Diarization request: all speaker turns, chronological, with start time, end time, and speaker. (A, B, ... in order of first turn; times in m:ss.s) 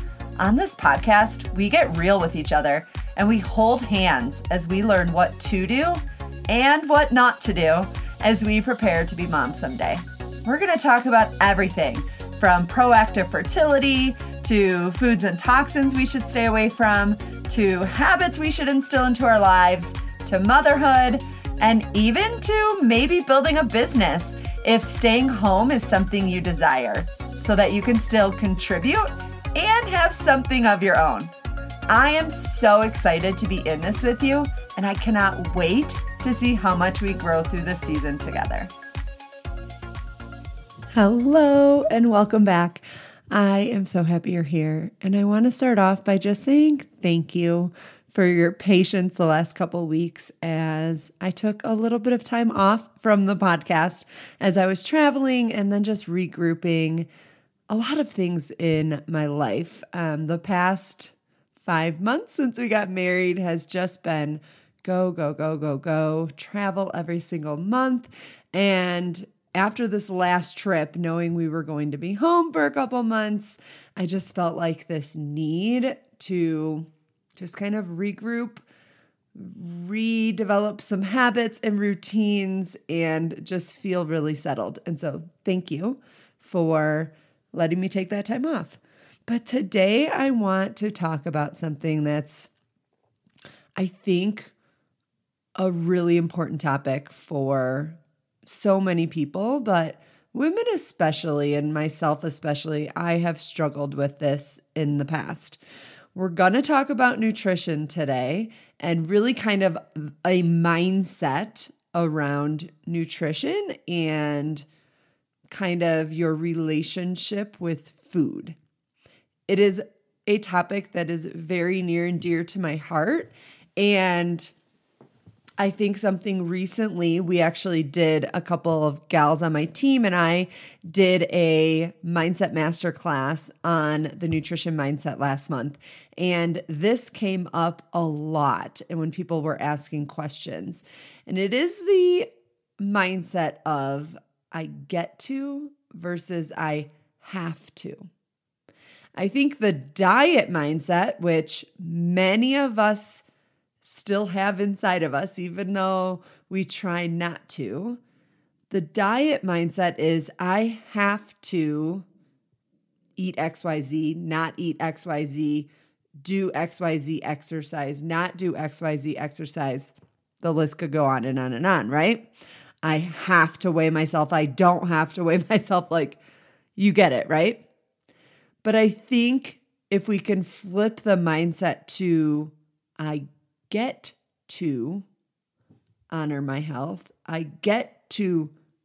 0:00.4-0:31.3 A
0:31.9-0:38.7 A
0:40.9-0:57.1 A
0:57.7-1:18.6 A
1:19.3-1:32.5 A
1:33.8-1:34.5 A
1:35.6-1:45.6 A
1:46.1-1:54.6 A
1:55.5-1:58.6 A
1:59.5-2:04.5 A
2:05.6-2:22.3 A
2:22.8-2:28.1 A
2:29.2-2:33.2 A
2:33.8-2:38.0 A
2:38.7-2:42.0 A
2:43.2-2:52.3 A
2:52.8-2:56.2 A
2:56.8-2:57.6 A
2:58.6-3:05.1 A
3:06.1-3:08.5 A